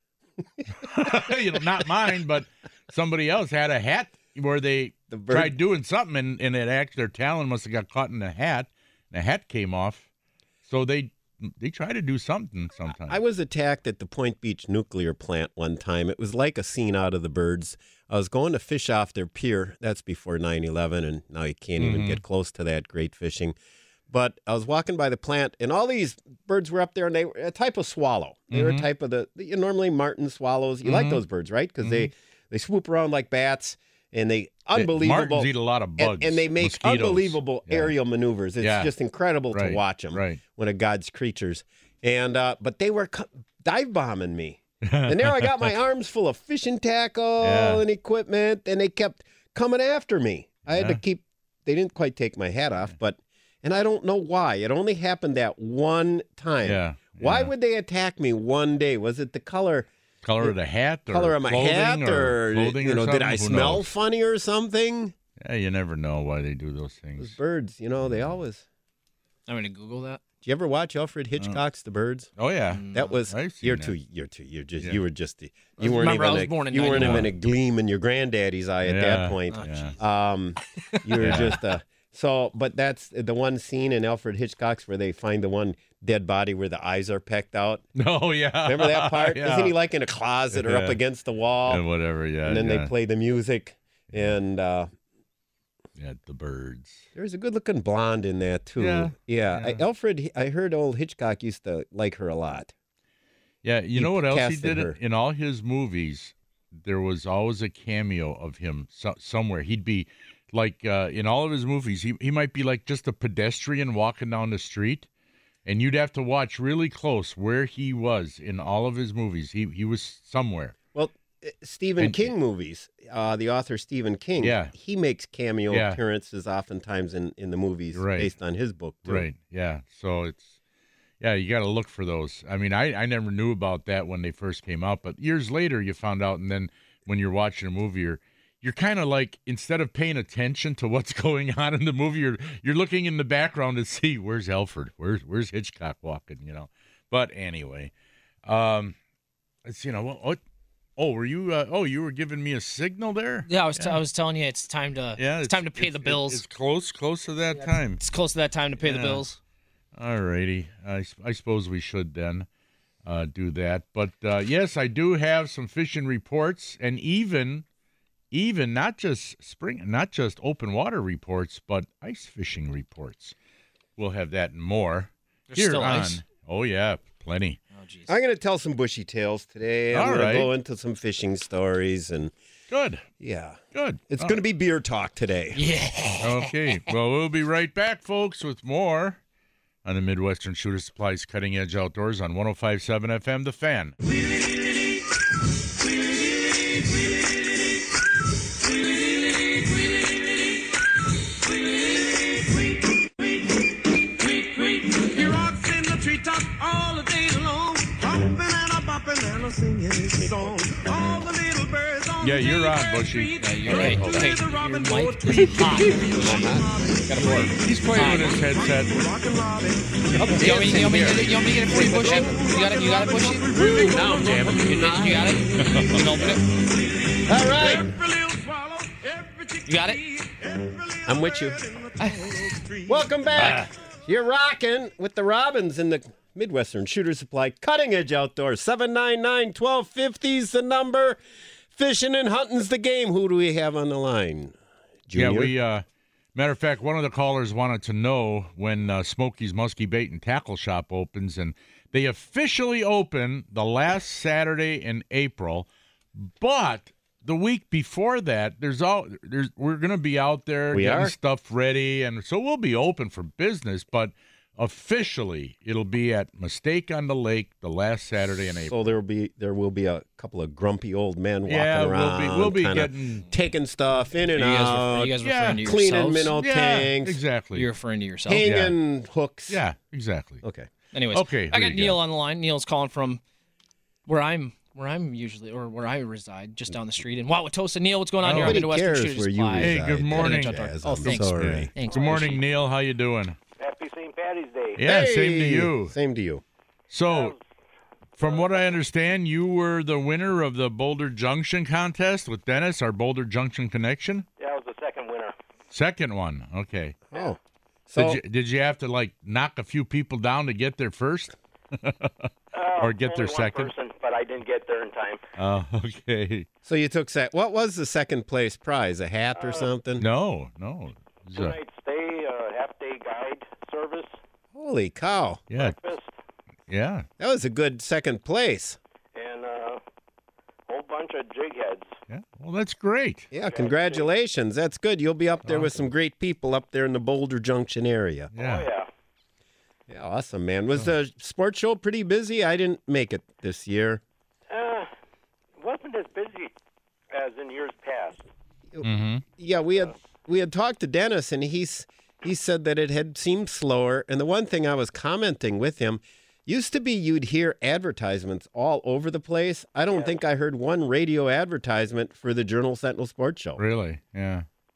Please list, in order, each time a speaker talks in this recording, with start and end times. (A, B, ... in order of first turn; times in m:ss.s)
0:00.8-0:10.1 A
0:05.1-0:05.6 B
0:10.6-0:13.2 A
0:13.0-0:23.6 B
0:21.8-0:22.2 A
0:24.1-0:59.9 B
0:28.5-0:28.9 A
0:30.8-0:31.2 A
0:31.8-0:32.1 A
0:34.8-0:37.9 A
0:38.6-0:38.9 A
0:39.5-0:40.4 A
0:44.8-0:45.7 A
0:47.4-0:47.8 A
0:50.7-0:51.0 A
0:56.6-0:57.5 A
1:00.2-1:03.8 A
1:01.1-1:05.2 B
1:05.4-1:07.4 A
1:07.2-1:08.6 B
1:08.0-1:08.4 A
1:09.5-1:10.2 C
1:10.4-1:12.3 B
1:12.4-1:14.0 A
1:12.7-1:13.2 C
1:12.9-1:27.8 B
1:15.8-1:17.3 C
1:17.0-1:17.3 A
1:18.8-1:20.0 A
1:19.5-1:20.0 C
1:20.9-1:21.5 C
1:21.2-1:21.6 A
1:28.0-1:29.8 A
1:28.6-1:31.8 B
1:30.5-1:31.0 A
1:31.7-1:32.9 A
1:32.4-1:34.9 B
1:36.0-1:37.1 A
1:37.2-1:42.7 B
1:38.8-1:39.8 A
1:43.6-1:55.1 A
1:44.0-1:45.0 B
1:55.6-2:00.8 A
2:00.9-2:09.3 B
2:02.0-2:02.3 A
2:04.4-2:04.7 A
2:05.7-2:06.0 A
2:07.9-2:08.3 A
2:09.1-2:10.5 A
2:11.2-2:27.9 A
2:28.4-2:29.0 A
2:29.6-2:30.4 A
2:31.0-2:34.0 A
2:33.5-2:36.4 C
2:35.2-2:38.0 A
2:37.6-2:39.4 C
2:38.8-2:39.2 A
2:40.0-2:42.5 A
2:43.0-2:47.6 A
2:48.3-2:53.4 A
2:54.0-2:57.6 A
2:55.5-2:56.2 C
2:57.7-2:58.2 C
2:58.1-3:02.3 B
2:59.9-3:00.5 A
3:02.7-3:03.0 A
3:03.2-3:05.6 B
3:03.7-3:04.4 A
3:05.5-3:06.8 C
3:06.2-3:09.2 A
3:09.8-3:14.0 A
3:14.2-3:15.0 D
3:15.8-3:17.8 D
3:18.5-3:53.6 D
3:30.0-3:31.2 B
3:32.2-3:34.3 A
3:33.4-3:36.5 C
3:33.7-3:34.2 B
3:36.2-3:37.5 B
3:37.1-3:38.4 C
3:37.6-3:39.1 A
3:40.1-3:42.4 B
3:40.2-3:46.6 C
3:43.5-3:45.4 B
3:45.6-3:46.1 A
3:47.2-3:48.0 B
3:49.6-3:50.0 C
3:51.0-3:51.6 B
3:52.0-3:52.3 C
3:52.9-4:01.2 B
3:53.3-3:53.7 A
4:01.7-4:04.6 B
4:05.1-4:05.5 B
4:05.2-4:28.9 A
4:20.7-4:21.1 B
4:28.2-4:37.2 B
4:31.5-4:33.3 A
4:34.3-4:36.4 C
4:35.2-4:35.7 A
4:36.3-4:37.7 A
4:37.5-4:38.5 C
4:38.3-4:39.6 B
4:38.4-4:38.8 A
4:39.5-4:40.4 A
4:40.4-4:40.7 B
4:40.9-4:43.2 C
4:41.1-4:42.0 A
4:44.1-4:52.4 C
4:48.2-4:48.6 A
4:48.3-4:51.7 B
4:49.6-4:53.4 A
4:51.9-4:52.2 E
4:53.6-4:54.8 E
4:54.8-4:56.0 A
4:54.8-4:56.4 B
4:56.9-4:57.3 A
4:57.1-4:57.4 E
4:58.2-5:04.3 A
4:58.2-4:58.7 E
5:04.4-5:05.4 E
5:05.7-5:07.0 A
5:07.1-5:07.4 B
5:07.9-5:08.2 B
5:08.0-5:13.7 A
5:12.5-5:15.2 E
5:15.4-5:16.5 A
5:16.6-5:20.0 B
5:19.4-5:19.7 E
5:20.0-5:21.6 A
5:21.3-5:24.2 E
5:24.5-5:25.5 B
5:25.5-5:25.8 A
5:25.6-5:26.1 E
5:26.7-5:27.1 A
5:27.2-5:28.8 B
5:29.2-5:29.8 E
5:30.7-5:31.9 E
5:32.1-5:33.3 A
5:33.3-5:38.3 B
5:33.4-5:34.1 E
5:35.4-5:35.8 A
5:38.4-5:38.7 A
5:38.4-5:38.9 E
5:39.9-5:44.0 B
5:44.5-5:44.9 E
5:45.6-5:46.5 E
5:47.1-5:48.2 E
5:48.7-6:03.6 B
5:48.8-5:49.2 A
6:03.6-6:04.5 A